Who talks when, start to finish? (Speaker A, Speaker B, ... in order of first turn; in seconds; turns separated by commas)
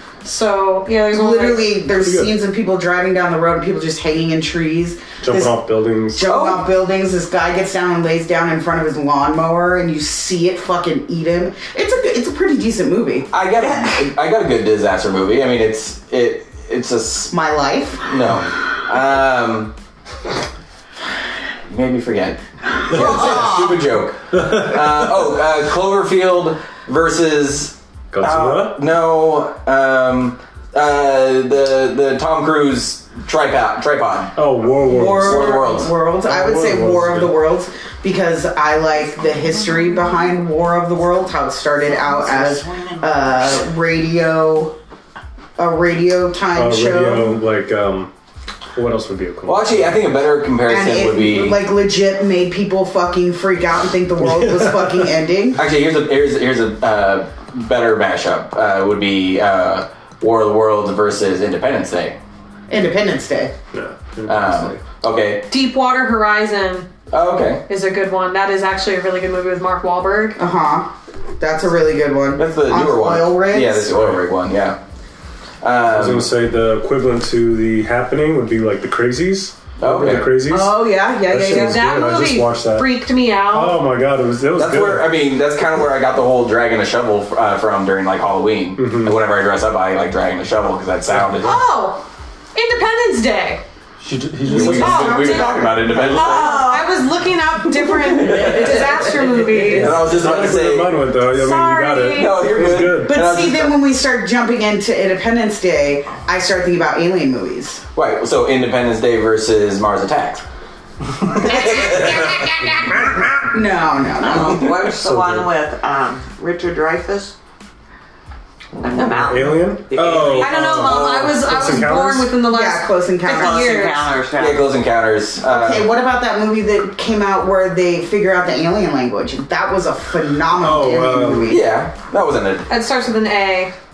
Speaker A: 0.2-1.7, Speaker B: 1.1-5.6, Speaker C: 2.0-2.3, Speaker C: 5.2-6.2, Speaker B: 6.1-13.3, Speaker D: 6.2-6.7, Speaker D: 13.3-17.3, Speaker E: 13.6-14.0, Speaker B: 17.3-18.0, Speaker D: 18.1-19.7, Speaker D: 21.7-34.4, Speaker B: 22.9-23.8, Speaker C: 28.1-28.8, Speaker C: 34.4-35.6, Speaker B: 34.9-44.7, Speaker D: 35.1-35.9, Speaker C: 36.2-37.4, Speaker E: 41.9-43.7, Speaker B: 45.6-47.3, Speaker C: 46.5-48.1, Speaker C: 48.7-50.0, Speaker D: 49.5-51.6, Speaker B: 50.6-55.6, Speaker C: 54.2-54.7, Speaker D: 55.5-62.2, Speaker B: 62.7-63.5, Speaker C: 63.7-64.8, Speaker D: 64.2-65.5, Speaker A: 65.5-66.9, Speaker D: 67.1-67.6, Speaker A: 67.7-70.4, Speaker B: 70.4-74.0, Speaker D: 72.4-74.8, Speaker D: 75.6-76.3, Speaker C: 75.9-82.9, Speaker D: 79.8-80.4, Speaker B: 80.4-82.2, Speaker A: 81.3-83.8, Speaker C: 83.5-85.1, Speaker D: 84.5-91.6, Speaker C: 88.8-89.2, Speaker C: 91.1-91.5, Speaker A: 91.4-93.6, Speaker C: 94.0-95.2, Speaker D: 94.4-96.7, Speaker B: 94.5-96.8, Speaker A: 94.5-100.1, Speaker E: 96.2-96.7, Speaker D: 97.9-99.0, Speaker E: 98.3-98.7, Speaker E: 99.2-99.7, Speaker D: 99.7-101.0, Speaker C: 99.7-103.2, Speaker A: 101.2-102.5, Speaker D: 102.1-103.8, Speaker B: 103.0-107.8, Speaker D: 107.9-110.4, Speaker D: 111.3-113.3, Speaker B: 111.4-112.6, Speaker B: 113.5-114.6, Speaker E: 114.2-117.3, Speaker C: 115.0-115.5, Speaker E: 118.8-120.8, Speaker C: 119.0-122.3, Speaker A: 120.3-124.2, Speaker D: 120.8-121.6, Speaker B: 122.4-123.9, Speaker E: 123.2-124.7, Speaker D: 124.4-125.9, Speaker B: 125.4-131.7, Speaker C: 130.6-131.6, Speaker D: 131.5-132.7, Speaker A: 132.7-133.7